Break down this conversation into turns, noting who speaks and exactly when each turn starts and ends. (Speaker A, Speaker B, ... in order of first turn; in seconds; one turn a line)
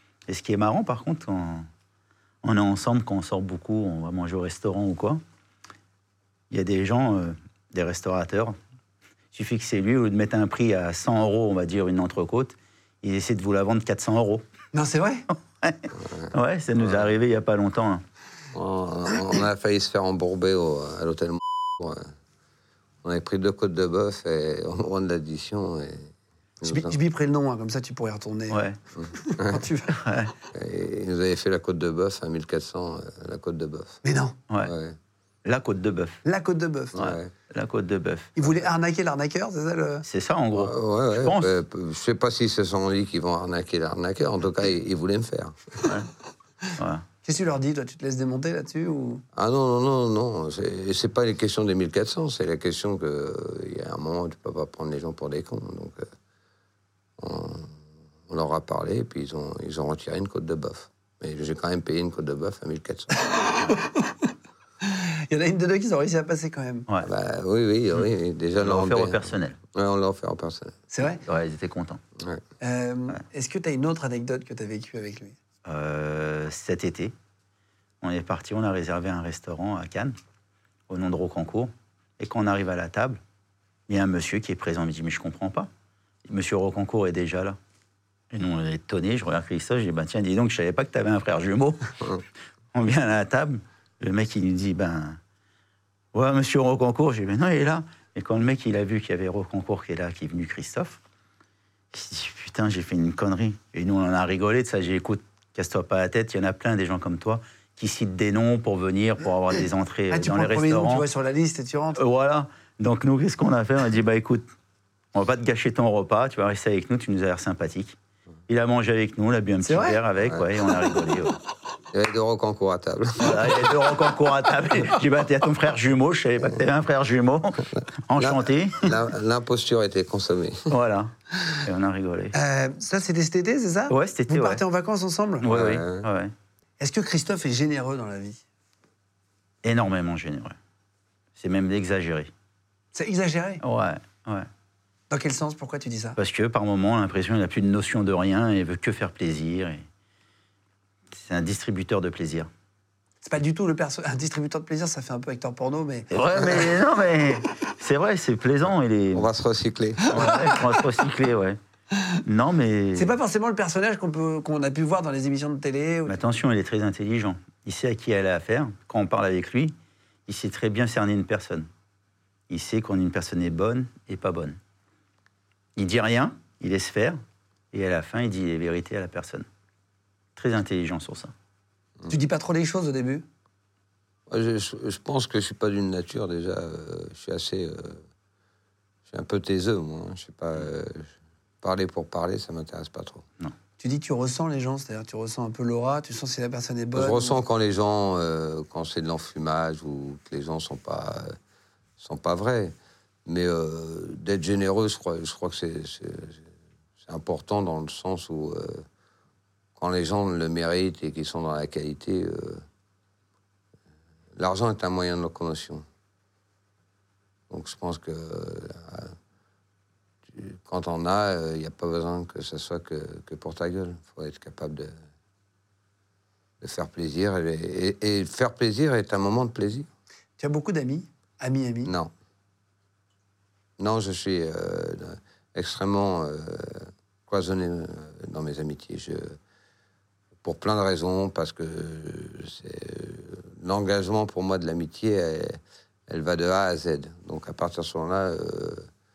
Speaker A: 0.3-1.7
Speaker A: 2.4-5.2
Speaker A: 6.5-8.6
Speaker A: 9.3-14.4
Speaker B: 14.7-15.3
Speaker A: 15.6-18.0
Speaker C: 16.0-17.1
Speaker C: 18.5-22.1
Speaker C: 23.0-27.0
Speaker B: 26.6-30.1
Speaker A: 28.5-28.8
Speaker C: 29.0-29.6
Speaker A: 29.9-30.3
Speaker C: 30.5-34.0
Speaker B: 34.0-34.4
Speaker C: 34.6-35.0
Speaker A: 35.5-36.2
Speaker B: 36.2-37.0
Speaker C: 37.0-37.3
Speaker A: 37.0-38.4
Speaker B: 38.4-40.0
Speaker A: 40.1-41.5
Speaker C: 40.5-45.7
Speaker A: 46.8-47.1
Speaker B: 47.2-49.2
Speaker C: 49.4-56.1
Speaker C: 57.2-63.2
Speaker B: 63.2-64.2
Speaker B: 64.8-66.9
Speaker C: 67.0-70.8
Speaker A: 68.6-69.6
Speaker B: 70.9-71.2
Speaker A: 71.2-72.0
Speaker B: 72.6-75.4
Speaker A: 75.7-77.1
Speaker A: 78.0-80.2
Speaker A: 80.9-83.2
Speaker A: 83.9-85.7
Speaker A: 86.3-87.6
Speaker A: 88.3-92.1
Speaker A: 92.7-95.2
Speaker A: 96.1-101.0
Speaker A: 101.9-111.1
Speaker B: 110.1-112.0
Speaker A: 112.0-114.5
Speaker A: 115.1-118.0
Speaker A: 118.5-121.4
Speaker B: 119.7-120.0
Speaker C: 121.9-123.6
Speaker A: 123.2-129.0
Speaker C: 128.2-130.7
Speaker A: 130.7-131.1
Speaker A: 131.6-132.3
Speaker B: 132.3-135.5
Speaker A: 133.9-134.6
Speaker A: 135.4-136.3
Speaker C: 135.4-136.1
Speaker B: 136.8-138.4
Speaker A: 139.6-140.6
Speaker A: 141.4-142.3
Speaker B: 142.9-143.6
Speaker A: 143.6-144.5
Speaker B: 145.1-146.2
Speaker A: 146.2-149.8
Speaker A: 151.1-152.5
Speaker B: 153.2-156.7
Speaker A: 156.1-159.3
Speaker C: 159.1-160.4
Speaker A: 160.1-161.6
Speaker B: 160.2-160.6
Speaker A: 162.2-163.1
Speaker B: 163.0-166.2
Speaker A: 166.1-169.8
Speaker A: 170.3-171.7
Speaker A: 172.5-174.6
Speaker A: 175.8-177.2
Speaker A: 177.7-179.5
Speaker A: 180.4-181.3
Speaker B: 182.1-183.2
Speaker C: 184.3-188.0
Speaker C: 189.1-191.1
Speaker C: 191.6-193.2
Speaker B: 193.8-197.4
Speaker C: 196.9-201.3
Speaker C: 202.0-202.8
Speaker C: 203.3-206.4
Speaker C: 207.0-208.8
Speaker C: 209.8-212.7
Speaker C: 214.4-215.9
Speaker C: 217.5-219.2
Speaker C: 220.3-224.9
Speaker C: 226.6-229.9
Speaker B: 230.4-231.9
Speaker C: 231.8-232.1
Speaker C: 233.8-239.4
Speaker C: 240.4-248.9